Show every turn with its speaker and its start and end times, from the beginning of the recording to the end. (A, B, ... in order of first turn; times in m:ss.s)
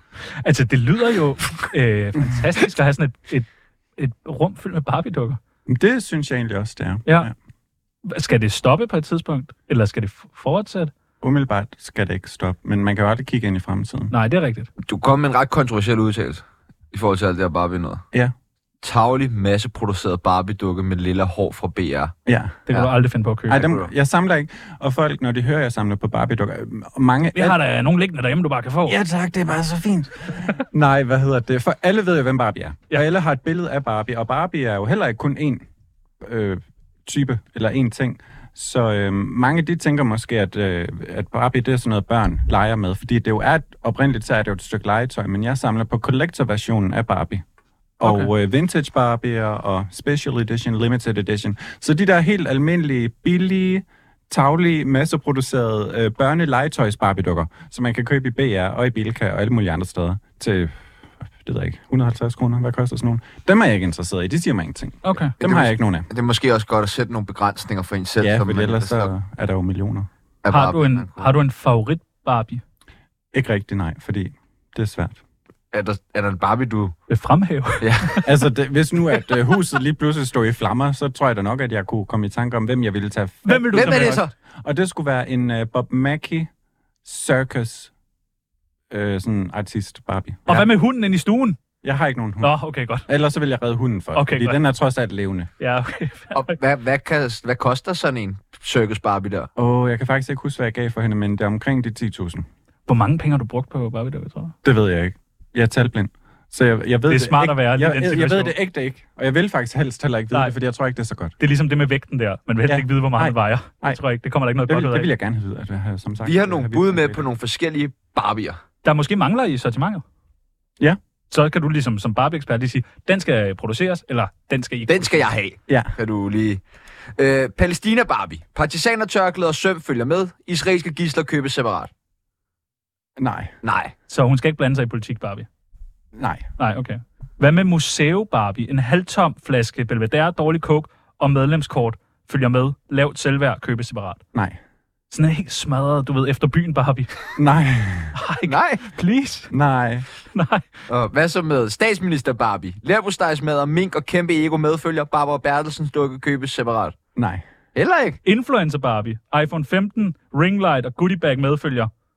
0:00.2-0:05.4 A
0:05.7-0:07.3 B
0:07.1-0:07.3 A
0:08.0-0:10.9 A
0:11.2-0:14.1 B
0:14.1-0:14.7 A
0:14.8-0:18.0 C
0:18.8-0:22.1 C
0:22.3-0:22.6 B
0:22.7-0:23.7 A
0:23.5-0:27.6 B
0:23.6-0:23.9 C
0:27.3-0:29.0 A
0:28.9-0:35.7 B
0:36.2-0:47.4 B
0:48.0-1:00.8 B
0:48.0-0:48.3 A
1:01.4-1:06.1 B
1:05.0-1:05.3 A
1:05.4-1:09.1 C
1:08.2-1:10.1 B
1:10.4-1:11.3 C
1:10.5-1:12.6 A
1:13.3-1:15.2 B
1:15.7-1:17.0 C
1:17.1-1:18.3 A
1:17.8-1:18.2 C
1:18.2-1:26.5 B
1:23.5-1:24.2 A
1:23.7-1:24.3 C
1:27.0-1:27.9 B
1:28.9-1:30.7 B
1:30.5-1:31.6 A
1:31.8-1:32.6 B
1:32.4-1:33.1 A
1:33.1-1:35.5 B
1:34.2-1:34.6 A
1:35.6-1:36.6 A
1:36.3-1:39.5 C
1:39.6-1:42.5 B
1:42.9-1:44.6 A
1:44.6-1:51.4 B
1:47.1-1:48.6 A
1:51.4-1:55.1 A
1:52.7-1:54.0 B
1:54.7-1:57.3 B
1:56.2-1:58.6 C
1:58.8-2:00.0 A
2:01.3-2:05.3 A
2:04.9-2:06.6 C
2:05.7-2:05.9 B
2:07.2-2:11.9 C
2:13.2-2:13.5 B
2:13.6-2:13.9 C
2:14.1-2:15.5 A
2:16.1-2:16.5 B
2:16.6-2:24.2 A
2:25.1-2:27.4 A
2:27.4-2:28.2 B
2:28.1-2:29.5 A
2:28.5-2:28.8 C
2:29.5-2:30.1 B
2:30.3-2:30.8 A
2:30.9-2:37.0 C
2:37.2-2:37.4 B
2:37.8-2:38.2 C
2:38.2-2:41.9 A